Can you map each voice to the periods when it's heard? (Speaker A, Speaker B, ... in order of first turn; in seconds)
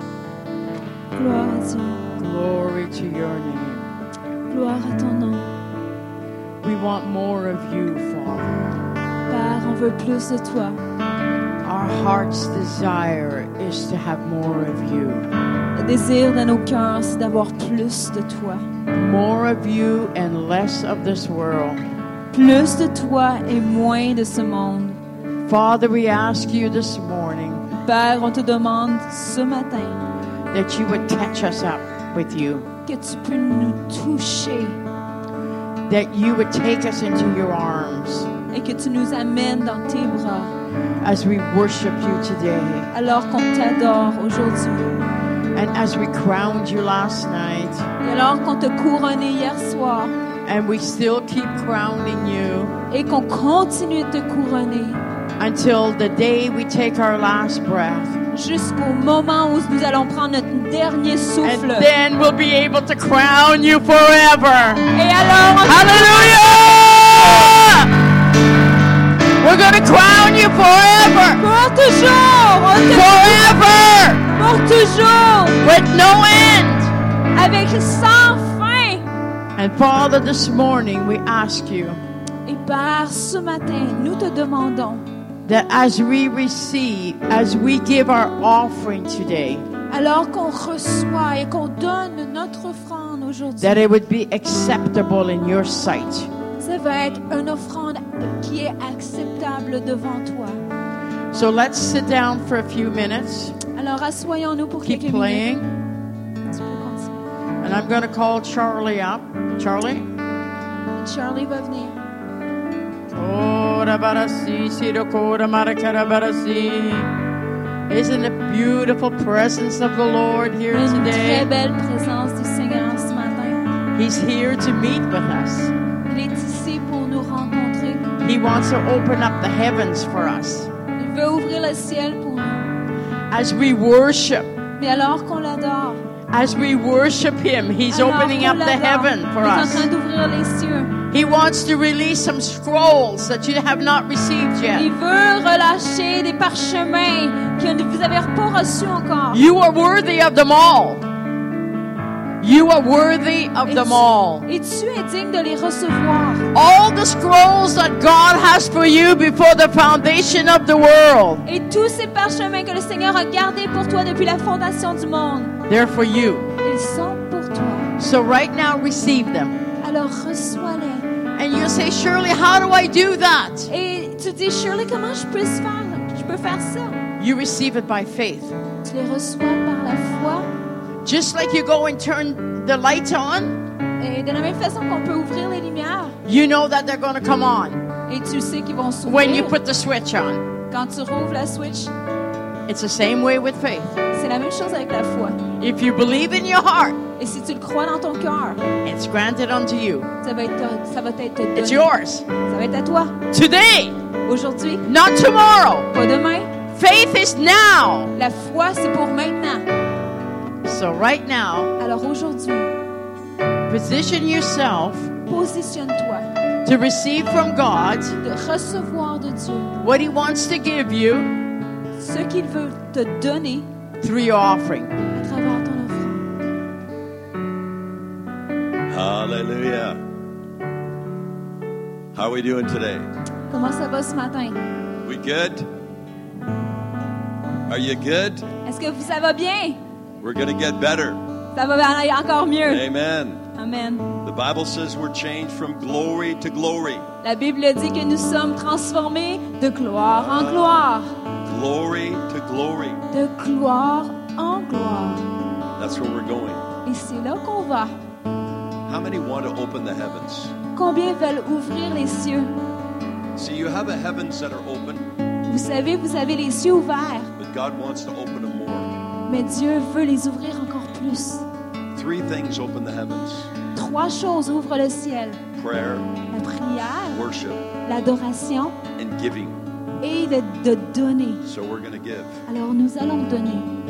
Speaker A: 1.1-2.0, 4.5-5.5, 9.3-10.8, 15.8-18.6, 22.3-25.0, 27.9-30.0, 32.9-34.8, 38.5-40.5, 42.9-45.0, 48.0-50.1, 52.9-55.0, 58.3-61.9, 64.9-66.9, 71.4-73.7, 74.3-75.6, 77.3-79.0, 82.5-85.1, 89.9-93.9, 96.6-100.6, 103.8-105.5, 106.5-107.2, 111.0-112.0, 120.7-123.6, 126.1-128.0, 131.0-132.7, 134.8-136.0, 137.9-140.9, 144.7-149.4, 153.7-156.4, 161.4-165.5, 166.6-167.9, 169.8-171.1, 173.7-177.0, 178.8-180.5, 184.0-186.2, 188.1-189.6, 190.7-191.9, 194.1-195.4, 197.2-198.6, 200.2-201.9, 202.4-203.2, 204.3-204.8, 205.9-206.5, 208.2-209.7, 211.8-212.7, 215.3-216.3, 218.2-219.7, 222.0-223.7, 225.2-226.3, 233.5-234.6, 238.6-239.8, 241.6-242.8, 243.6-244.1, 247.2-251.1, 253.1-255.3, 256.9-257.9, 260.8-262.5, 265.5-267.3, 269.3-271.4, 273.8-275.4, 276.3-277.2, 277.9-278.8, 280.0-281.4, 282.5-283.7
Speaker B: 2.2-3.9, 6.6-8.5, 11.6-15.3, 18.9-21.8, 25.5-27.7, 30.5-32.7, 35.9-38.3, 41.0-42.9, 45.5-47.9, 50.5-52.8, 55.4-58.2, 61.4-64.9, 65.7-67.9, 69.4-71.4, 72.8-74.3, 75.6-76.9, 79.6-82.0, 85.5-89.7, 93.6-96.3, 101.3-103.6, 104.8-105.7, 107.6-110.1, 113.1-117.1, 117.9-121.5, 124.0-125.7, 128.2-130.7, 133.3-134.5, 136.3-139.9, 141.1-144.9, 149.3-151.0, 152.4-154.5, 156.5-161.4, 165.7-166.5, 168.0-169.6, 171.4-173.7, 177.2-178.6, 181.0-183.6, 186.2-187.8, 189.1-190.5, 192.7-194.0, 195.6-197.0, 198.8-200.1, 201.6-202.3, 203.3-204.0, 204.8-205.9, 206.7-208.1, 210.6-211.7, 213.7-215.2, 216.7-218.2, 219.8-221.3, 224.0-224.9
Speaker C: 228.9-230.0, 232.1-233.1, 235.0-235.7, 237.7-238.5, 240.2-241.2, 242.6-243.5, 244.2-247.1, 250.1-250.9, 251.4-253.0, 255.8-256.7, 258.9-260.6, 263.4-265.1, 267.4-269.0, 271.9-273.5, 275.5-276.2, 277.1-277.7, 278.9-279.6, 281.4-282.4